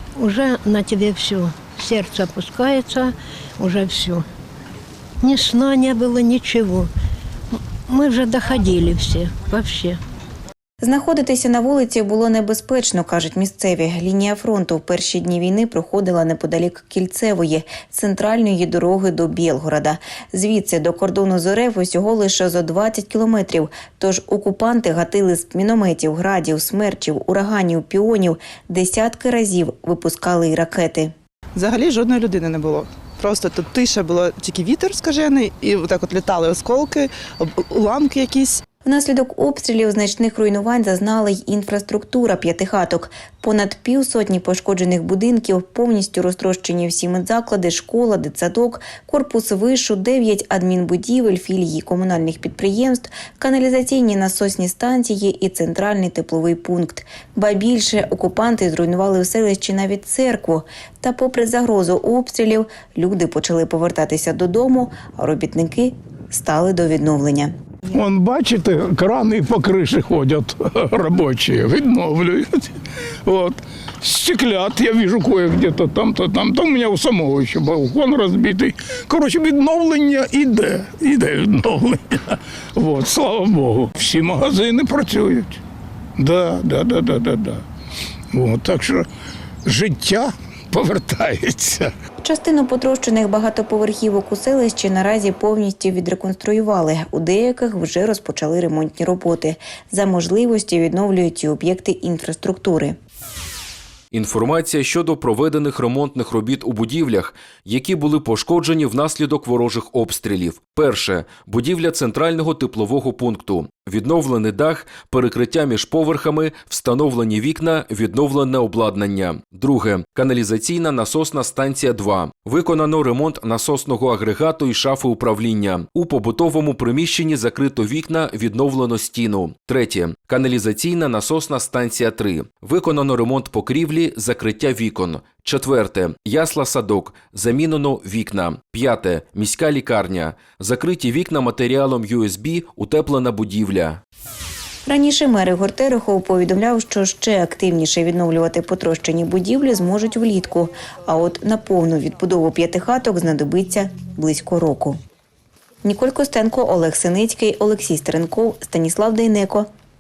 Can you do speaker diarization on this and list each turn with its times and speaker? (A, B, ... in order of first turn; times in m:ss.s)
0:00.2-0:04.2 A
0:05.2-0:06.9 A
0:07.9-0:10.0 A
0:10.8-0:31.1 B
0:31.6-0:38.6 C
0:38.8-1:07.5 B
1:07.9-1:25.6 D
1:26.2-1:27.6 D
1:28.3-1:29.1 D
1:29.6-1:31.9 D
1:32.2-1:43.0 B
1:44.1-2:24.0 E
2:24.9-2:35.0 B
2:35.8-2:39.7 B